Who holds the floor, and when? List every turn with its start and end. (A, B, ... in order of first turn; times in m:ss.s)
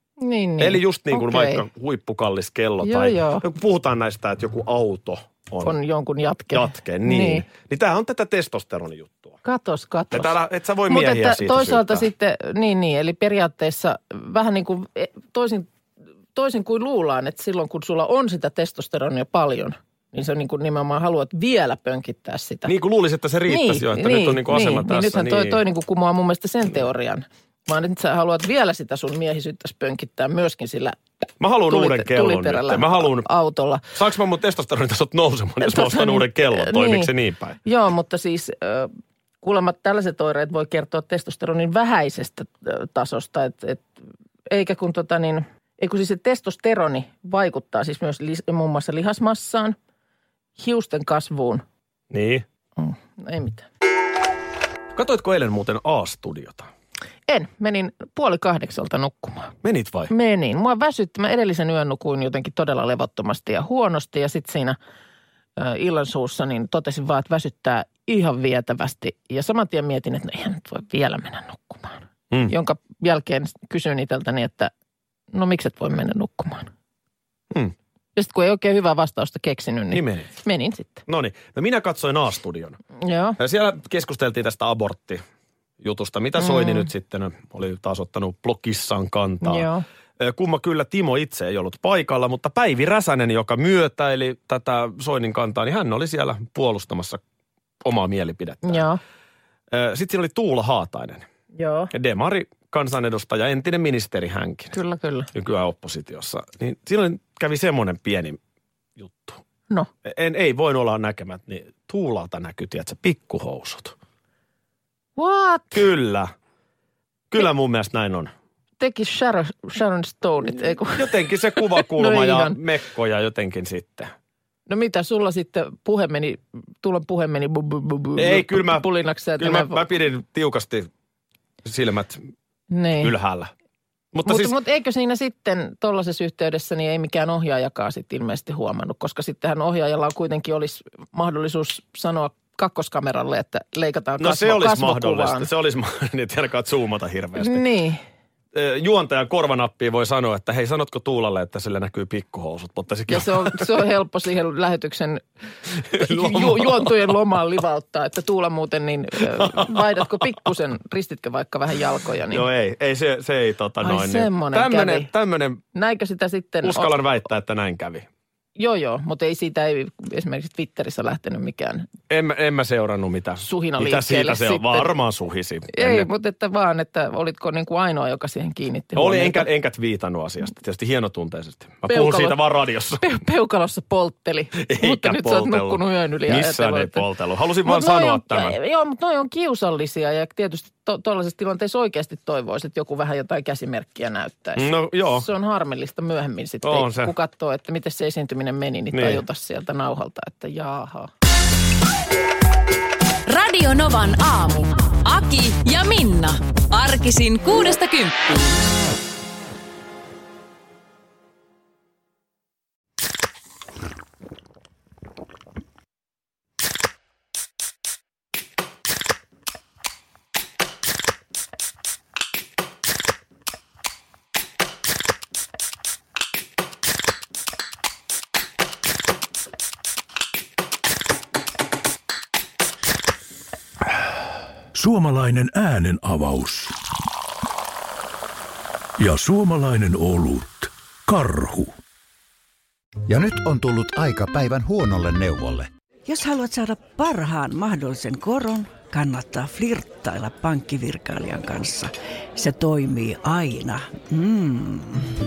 0:00.2-0:01.6 A
0:00.6-0:05.8 B
0:02.8-0:03.4 A
0:05.6-0:07.5 A
0:06.5-0:09.4 B
0:09.4-0:10.4 A
0:10.1-0:12.1 B
0:10.9-0:15.7 A
0:16.4-0:22.7 A
0:22.7-0:25.6 B
0:23.5-0:31.0 A
0:31.4-0:33.3 B
0:31.7-0:33.8 A
0:33.9-0:37.6 B
0:35.6-0:37.1 A
0:37.6-0:43.9 A
0:44.5-0:49.8 A
0:50.6-0:51.6 A
0:52.1-0:52.5 B
0:52.8-0:53.7 A
0:55.0-0:56.7 B
0:57.3-0:59.6 A
0:59.6-1:00.1 B
1:00.1-1:04.8 A
1:05.6-1:14.7 A
1:15.3-1:16.7 A
1:18.2-1:21.0 A
1:19.9-1:20.3 B
1:21.1-1:22.8 B
1:23.0-1:23.4 A
1:23.4-1:25.2 B
1:25.8-1:37.2 B
1:26.4-1:26.9 A
1:29.4-1:29.8 A
1:37.8-1:38.9 B
1:38.6-1:39.0 A
1:39.7-1:41.2 B
1:41.5-1:41.9 A
1:41.9-1:44.8 B
1:44.7-1:45.3 A
1:45.3-1:48.4 B
1:49.0-1:49.4 B
1:50.0-1:54.0 B
1:55.2-1:55.7 A
1:55.7-1:56.3 B
1:57.3-1:58.3 B
1:58.8-2:02.6 A
2:01.0-2:04.1 B
2:04.7-2:09.8 A
2:08.2-2:08.9 B
2:09.4-2:10.9 B
2:11.6-2:12.3 B
2:12.7-2:13.1 A
2:13.0-2:13.5 B
2:14.1-2:14.6 B
2:14.2-2:25.5 A
2:24.2-2:27.7 B
2:27.4-2:28.0 A
2:28.5-2:33.7 B
2:33.1-2:35.2 A
2:35.8-2:37.1 B
2:35.8-2:42.5 A
2:39.3-2:40.3 B
2:42.3-2:45.6 B
2:43.8-2:45.1 A
2:45.7-2:47.0 A
2:46.6-2:48.1 B
2:48.6-2:51.9 A
2:52.1-2:56.1 B
2:53.4-2:54.9 A
2:55.7-2:59.5 A
2:59.0-3:03.0 B
3:01.9-3:02.4 A
3:03.0-3:07.1 A
3:04.6-3:08.6 B
3:07.6-3:21.1 A
3:14.6-3:15.3 B
3:16.6-3:17.1 B
3:18.9-3:19.2 B
3:23.3-3:28.6 C
3:54.7-3:56.8 D
3:59.0-4:01.8 D
4:03.1-4:05.7 E
4:06.1-4:15.1 F